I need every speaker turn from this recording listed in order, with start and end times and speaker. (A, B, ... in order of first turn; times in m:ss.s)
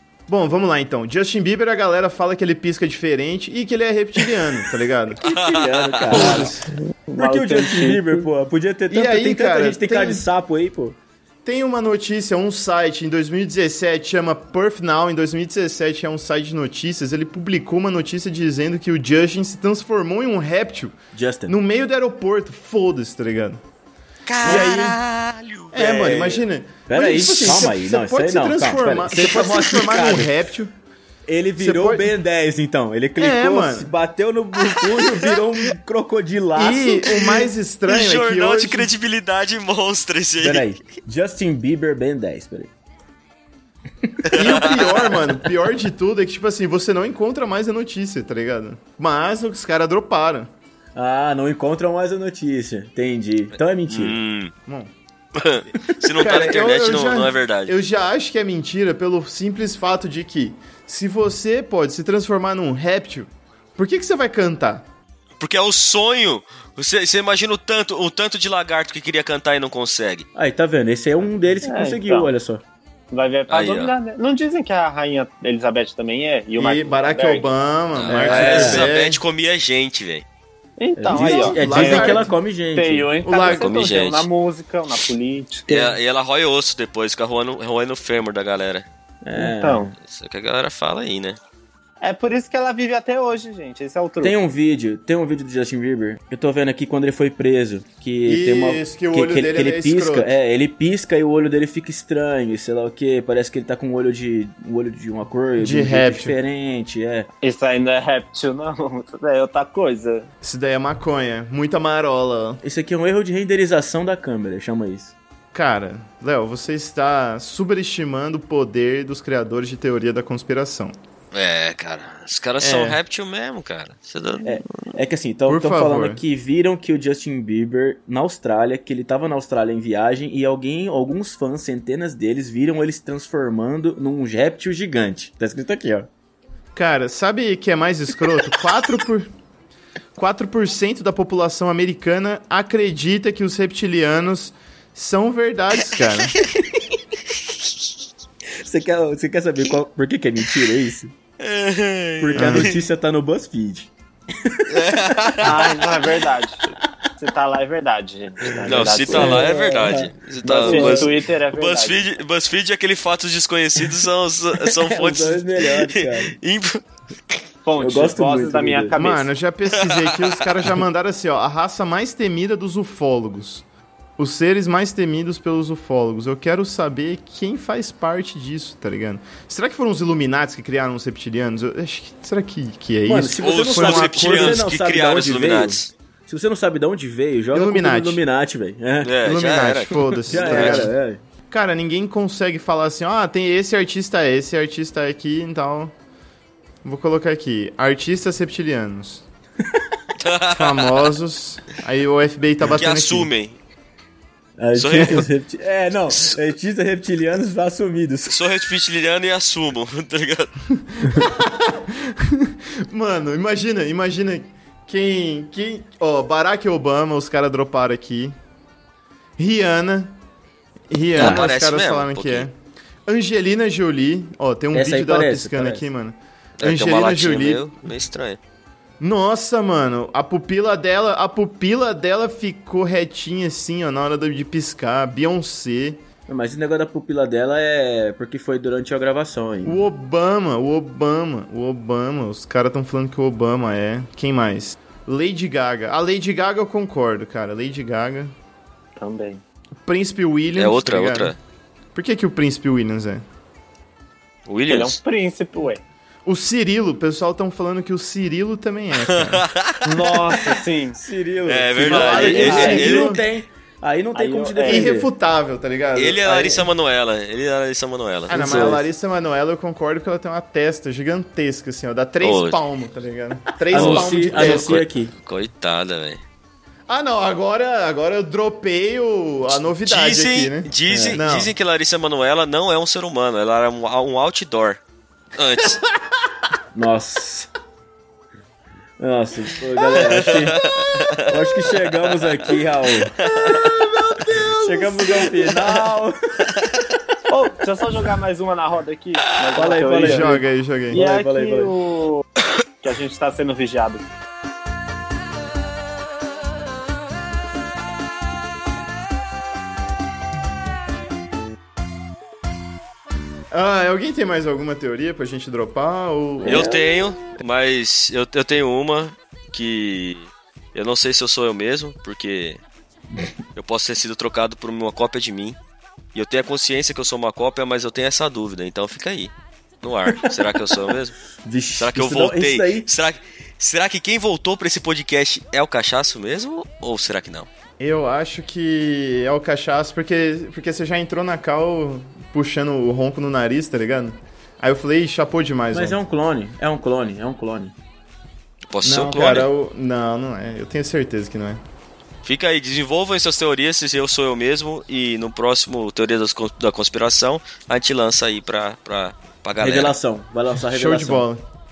0:00.3-0:05.2 A
0:05.2-0:06.4 B
0:05.2-0:06.6 C
0:06.1-0:06.6 A
0:06.2-0:08.2 D
0:07.2-0:11.0 C
0:08.9-0:10.2 A
0:11.4-0:20.9 A
0:21.1-0:21.5 C
0:21.5-0:23.6 A
0:24.2-0:26.4 B
0:24.4-0:25.0 A
0:24.4-0:24.7 C
0:25.7-0:30.7 A
0:26.9-0:30.3 C
0:31.2-0:37.4 C
0:31.6-0:32.1 A
0:33.2-0:33.9 A
0:36.6-0:38.9 A
0:37.8-0:40.7 B
0:40.4-0:42.7 C
0:44.2-0:45.3 B
0:44.3-0:50.5 A
0:50.9-0:54.2 C
0:53.9-0:54.5 B
0:55.3-0:57.7 B
0:56.2-1:04.8 A
1:05.4-1:10.2 B
1:10.3-1:12.6 C
1:11.6-1:12.3 D
1:13.1-1:17.5 D
1:13.5-1:13.9 B
1:16.6-1:19.2 A
1:17.9-1:20.2 B
1:18.1-1:18.8 C
1:20.8-1:25.9 D
1:21.0-1:23.1 C
1:21.1-1:22.3 A
1:23.2-1:23.7 A
1:23.3-1:24.3 B
1:25.7-1:28.9 B
1:29.2-1:29.9 C
1:29.4-1:29.9 D
1:30.0-1:31.4 B
1:32.0-1:34.4 D
1:34.2-1:47.3 C
1:38.2-1:40.3 A
1:45.6-1:46.4 A
1:47.4-1:50.3 D
1:50.4-1:52.6 A
1:52.6-1:55.1 C
1:55.5-2:00.9 A
2:01.3-2:04.6 B
2:02.6-2:03.0 A
2:04.4-2:16.1 C
2:05.5-2:06.2 A
2:16.8-2:19.3 A
2:20.2-2:26.4 A
2:28.6-2:31.1 C
2:31.4-2:32.8 B
2:32.2-2:34.9 C
2:32.4-2:32.7 A
2:34.7-2:36.1 B
2:35.4-2:39.5 D
2:38.4-2:41.2 C
2:38.6-2:47.4 B
2:40.4-2:42.0 D
2:44.6-2:46.4 C
2:47.6-2:49.3 D
2:47.8-2:48.9 C
2:49.0-2:53.6 A
2:49.7-2:50.7 B
2:54.2-3:04.6 A
3:03.1-3:09.2 C
3:03.4-3:05.9 B
3:07.5-3:08.2 A
3:09.0-3:10.9 B
3:09.2-3:10.9 A
3:10.3-3:11.2 C
3:11.5-3:15.9 A
3:16.8-3:19.2 A
3:20.2-3:21.1 B
3:20.5-3:23.3 A
3:22.7-3:23.6 B
3:24.6-3:28.4 C
3:24.7-3:25.3 B
3:28.3-3:30.5 B
3:30.9-3:38.3 A
3:39.4-3:40.2 A
3:40.9-3:42.5 A
3:41.2-3:42.5 B
3:41.2-3:41.4 C
3:43.1-3:47.6 A
3:44.7-3:45.8 C
3:46.6-3:48.4 B
3:49.0-3:56.0 A
3:56.3-3:59.9 C
3:59.6-4:08.3 A
4:09.0-4:09.4 D
4:09.8-4:11.3 A
4:10.6-4:11.4 B
4:11.9-4:13.2 A
4:14.4-4:15.0 B
4:14.7-4:15.8 D
4:16.2-4:19.4 A
4:19.0-4:20.6 B
4:19.8-4:21.0 D
4:21.0-4:25.1 C
4:21.4-4:23.2 B
4:21.8-4:23.2 A
4:22.3-4:23.0 D
4:24.1-4:24.9 D
4:24.6-4:26.7 A
4:26.0-4:28.8 B
4:28.3-4:34.8 A
4:28.3-4:28.8 C
4:32.2-4:32.6 B
4:33.7-4:35.1 C
4:33.7-4:36.2 B
4:36.9-4:41.5 A
4:39.5-4:44.8 B
4:40.9-4:41.2 C
4:45.3-4:45.8 B
4:46.7-4:47.5 C
4:49.0-4:50.6 C
4:49.9-4:52.3 B
4:51.2-4:53.2 C
4:53.2-4:53.7 B
4:53.2-4:55.4 A
4:54.6-4:56.5 C
4:57.3-5:00.4 D
4:59.5-5:01.7 C
5:00.0-5:01.0 A
5:00.9-5:02.2 D
5:02.8-5:04.0 D
5:13.5-5:16.7 A
5:16.4-5:17.4 C
5:16.4-5:22.6 B
5:23.6-5:25.6 B
5:26.1-5:31.1 B
5:31.4-5:32.9 C
5:31.8-5:37.5 B
5:37.8-5:46.0 A
5:45.7-5:47.7 C
5:48.7-5:49.5 B
5:48.8-5:51.6 A
5:52.2-6:00.0 B
5:59.6-6:01.2 C
6:00.7-6:01.4 A